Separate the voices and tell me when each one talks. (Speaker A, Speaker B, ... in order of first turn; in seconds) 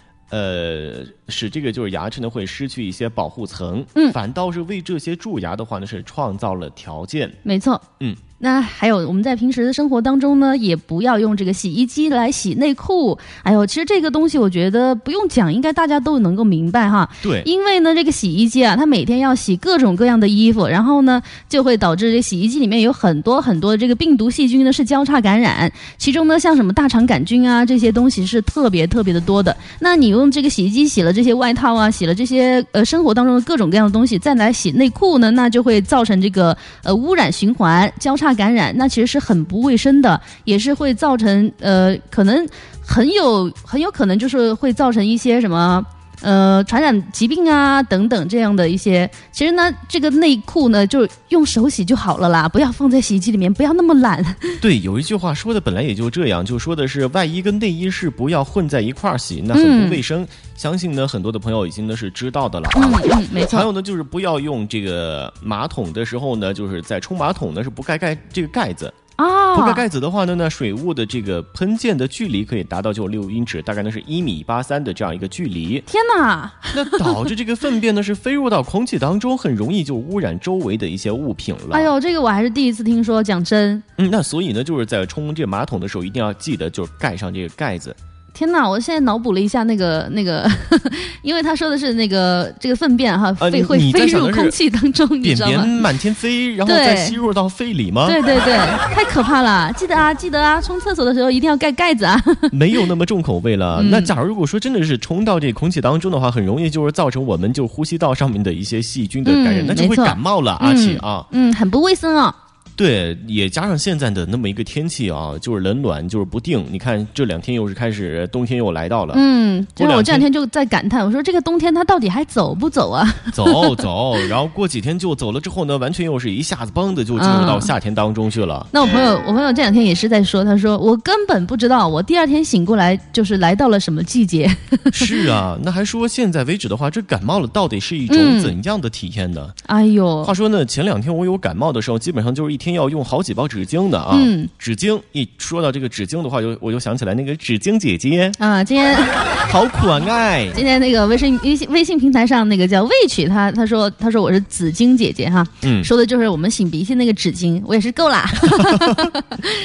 Speaker A: 0.3-7.4, 17.2-17.5, 54.6-69.0, 69.5-75.8, 76.7-81.9, 84.0-88.0, 93.4-94.6, 95.2-98.2, 102.5-111.3, 112.8-119.2, 119.8-120.2, 123.3-128.7, 134.9-139.6, 140.2-148.4, 149.4-150.6, 155.6-155.9, 158.5-159.1
Speaker B: 7.4-7.8, 8.4-54.6, 59.5-60.0, 62.7-63.7, 69.2-69.8, 75.9-77.2, 81.7-83.8, 88.3-95.8, 96.7-97.2, 98.0-102.5, 103.8-104.1, 109.2-112.3, 119.1-123.7, 127.2-127.7, 128.7-135.1, 138.1-138.5, 139.7-140.3, 144.1-144.5, 148.4-149.4, 150.5-159.4